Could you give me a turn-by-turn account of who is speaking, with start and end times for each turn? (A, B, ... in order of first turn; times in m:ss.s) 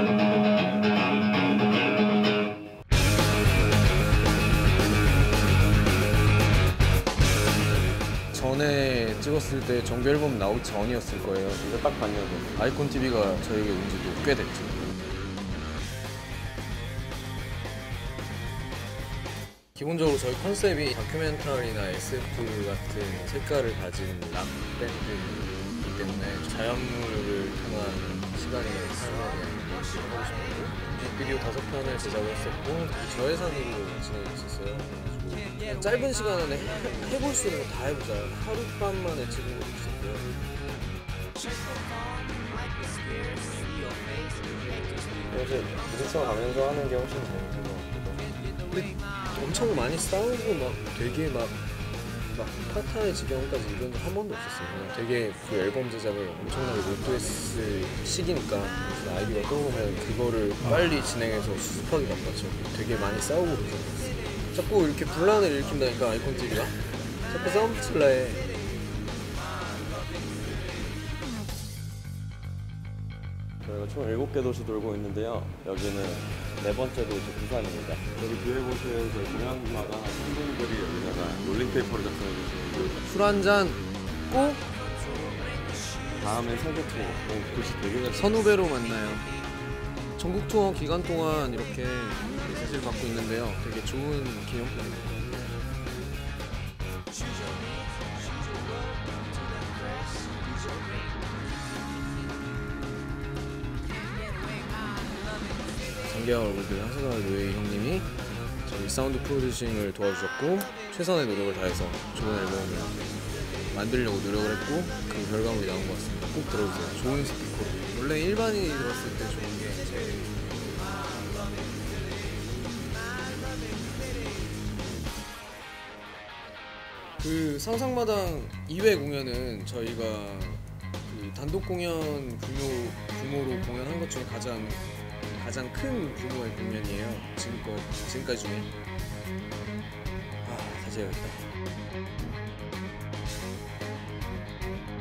0:08.3-0:11.6 A
0:11.6-0:12.6 B
0:12.6-0:14.9 A
0:19.8-0:40.3 A
0:45.3-0:48.3 B
0:48.7-0:51.6 A
0:52.3-1:08.5 A
1:13.6-1:23.0 B
1:23.0-1:24.6 A
1:26.2-1:28.6 B
1:28.0-1:29.3 A
1:30.2-1:35.3 A
1:46.0-1:48.1 A
1:48.6-1:53.0 A
1:53.7-2:00.4 A
2:07.2-2:18.7 A
2:20.4-2:21.5 A